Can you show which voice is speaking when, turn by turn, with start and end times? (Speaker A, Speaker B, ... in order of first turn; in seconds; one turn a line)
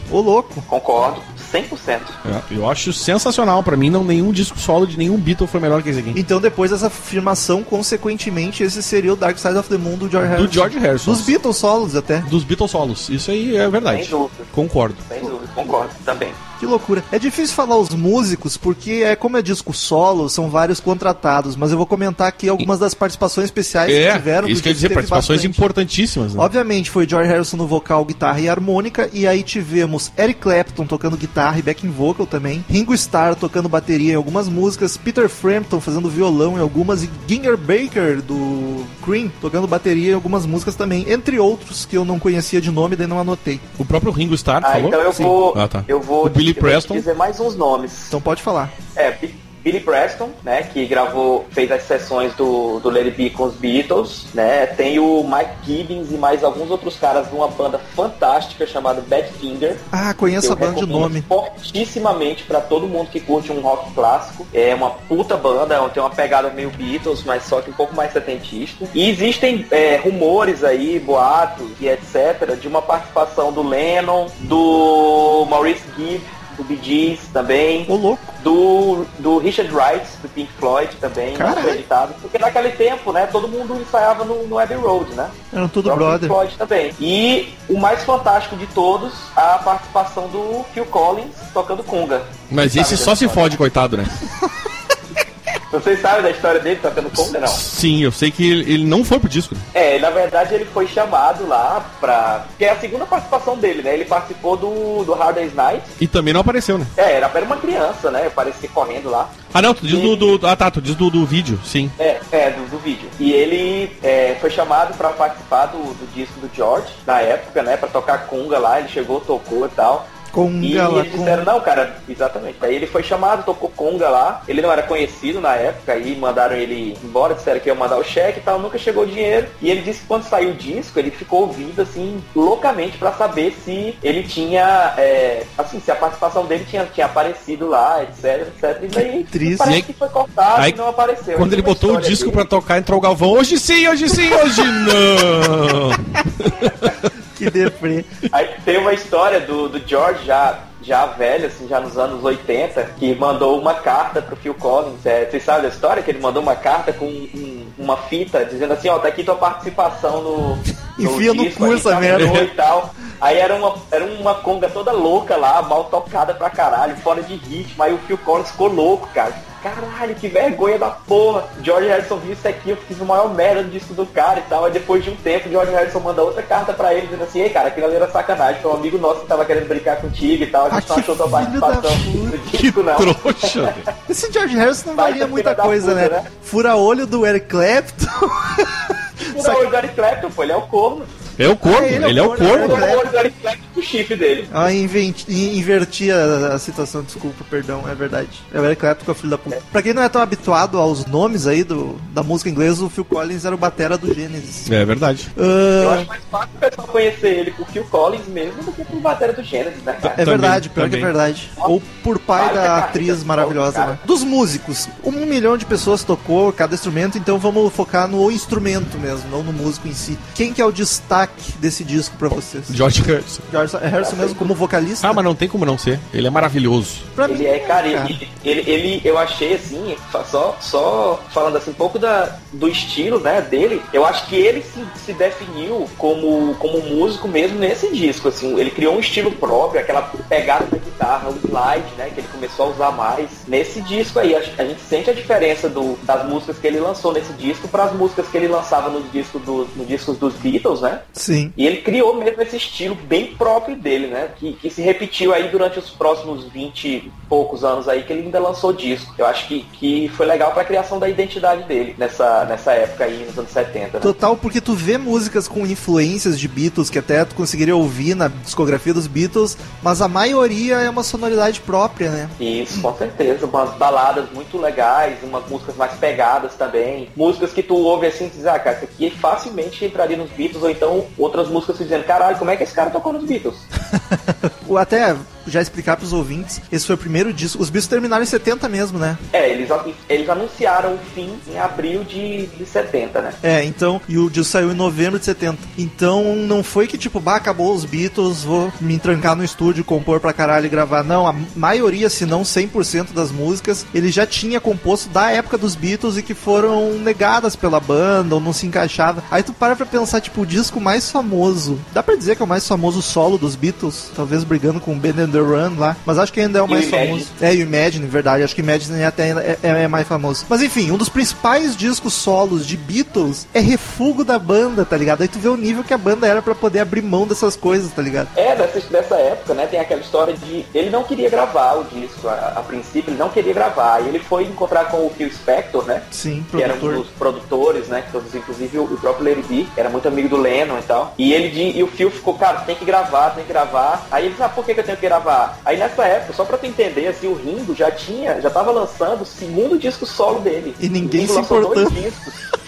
Speaker A: 0.1-0.6
Speaker B: 0.7-2.2
Speaker C: 2.2-6.2
Speaker A: 6.1-12.3
Speaker C: 10.2-11.3
Speaker C: 12.2-15.0
Speaker B: 13.9-14.5
Speaker B: 15.0-16.4
Speaker A: 16.6-25.6
Speaker C: 23.9-26.5
Speaker A: 26.4-43.6
Speaker C: 43.8-47.0
Speaker B: 44.6-48.1
Speaker A: 48.1-48.7
Speaker B: 49.0-59.8
Speaker A: 59.9-61.2
Speaker B: 60.4-93.6
Speaker A: 77.9-78.3
Speaker A: 81.3-81.8
Speaker A: 85.5-86.3
Speaker C: 92.5-94.2
Speaker B: 95.7-97.6
Speaker C: 97.5-99.6
Speaker B: 99.7-105.9
Speaker C: 106.0-106.9
Speaker B: 107.0-110.3
Speaker C: 109.5-111.9
Speaker B: 112.0-142.5
Speaker A: 120.3-121.5
Speaker A: 139.3-139.8
Speaker C: 141.3-147.1
Speaker A: 147.3-148.1
Speaker B: 148.3-183.8
Speaker A: 161.0-162.5
Speaker C: 162.1-162.5
Speaker A: 180.7-182.4
Speaker C: 182.5-183.8
Speaker A: 184.1-189.6
Speaker B: 184.9-186.3
Speaker B: 189.2-191.1
Speaker C: 191.4-192.9
Speaker A: 191.6-193.1
Speaker B: 192.4-194.5
Speaker A: 194.5-204.7
Speaker C: 204.7-205.3
Speaker A: 205.3-206.1
Speaker B: 205.8-210.2
Speaker C: 210.1-211.1
Speaker A: 210.1-222.8
Speaker B: 212.3-214.0
Speaker C: 222.7-223.4
Speaker A: 223.5-225.2
Speaker B: 224.0-224.5
Speaker C: 225.0-227.1
Speaker A: 227.1-228.2
Speaker B: 227.2-264.1
Speaker A: 251.1-251.5
Speaker A: 264.0-272.3
Speaker B: 272.4-283.6
Speaker A: 283.9-289.2
Speaker B: 289.3-293.4
Speaker A: 293.4-328.3
Speaker B: 316.7-317.3
Speaker B: 328.3-352.4
Speaker A: 336.1-337.1
Speaker A: 350.8-352.0